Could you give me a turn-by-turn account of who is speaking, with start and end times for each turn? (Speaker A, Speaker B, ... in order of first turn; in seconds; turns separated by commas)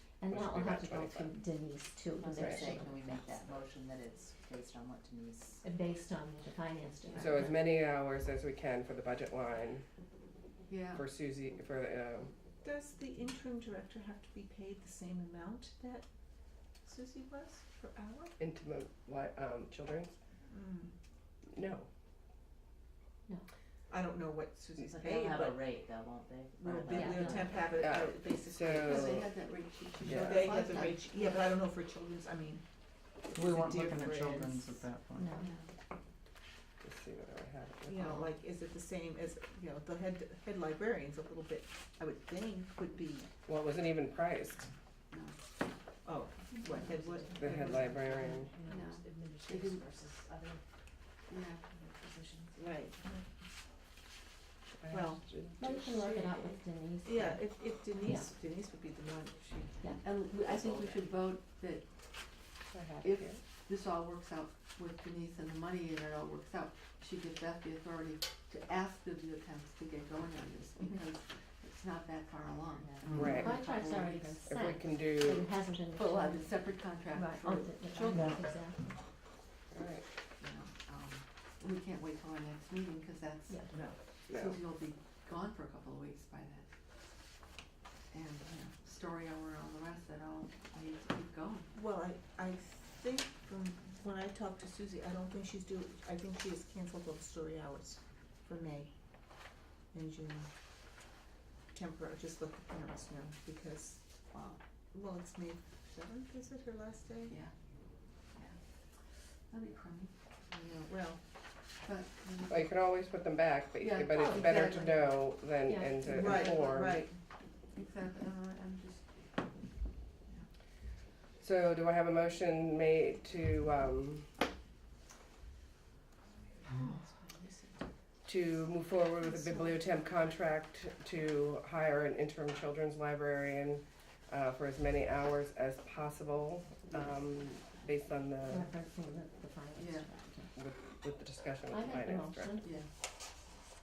Speaker A: 0.2-3.2, Speaker B: 0.3-1.3, Speaker C: 2.2-5.6, Speaker B: 2.4-2.7, Speaker A: 5.6-7.6, Speaker B: 7.2-9.8, Speaker D: 10.7-11.0, Speaker B: 10.9-12.3, Speaker E: 12.6-16.1, Speaker E: 16.8-18.3, Speaker B: 18.4-20.2, Speaker E: 20.5-20.9, Speaker B: 21.5-21.9, Speaker E: 23.9-25.6, Speaker C: 24.9-27.5, Speaker E: 26.6-29.2, Speaker A: 26.9-27.7, Speaker B: 27.7-29.3, Speaker D: 28.8-31.0, Speaker B: 30.0-30.5, Speaker E: 30.1-32.6, Speaker E: 33.2-34.9, Speaker F: 33.3-35.3, Speaker A: 35.1-35.5, Speaker D: 35.4-35.7, Speaker B: 36.8-38.3, Speaker E: 37.9-43.3, Speaker B: 43.5-44.7, Speaker D: 45.1-45.4, Speaker E: 46.0-47.5, Speaker C: 46.9-50.6, Speaker B: 47.3-48.5, Speaker D: 48.6-49.8, Speaker D: 51.3-51.7, Speaker C: 51.7-52.6, Speaker E: 52.6-53.1, Speaker B: 54.8-55.8, Speaker E: 54.9-59.9, Speaker A: 55.6-58.3, Speaker D: 60.0-61.9, Speaker E: 60.4-60.9, Speaker B: 62.7-63.4, Speaker D: 63.0-74.4, Speaker C: 72.8-73.1, Speaker B: 73.1-73.5, Speaker A: 73.2-76.6, Speaker B: 74.4-75.5, Speaker D: 76.0-78.5, Speaker A: 77.1-78.8, Speaker B: 79.7-80.0, Speaker D: 80.4-83.7, Speaker D: 84.3-86.7, Speaker B: 84.3-84.6, Speaker D: 88.1-91.7, Speaker E: 91.7-98.9, Speaker E: 99.9-100.5, Speaker E: 101.7-104.0, Speaker D: 104.3-104.6, Speaker E: 104.9-107.4, Speaker D: 109.5-110.1, Speaker E: 110.5-111.2, Speaker D: 111.8-112.6, Speaker B: 112.5-117.1, Speaker D: 113.8-115.1, Speaker A: 114.1-114.7, Speaker A: 115.7-116.5, Speaker E: 116.1-117.2, Speaker D: 117.7-119.2, Speaker B: 121.4-124.3, Speaker E: 126.7-127.8, Speaker B: 128.2-138.7, Speaker A: 138.5-140.5, Speaker D: 139.8-140.1, Speaker B: 140.5-142.6, Speaker A: 141.7-142.8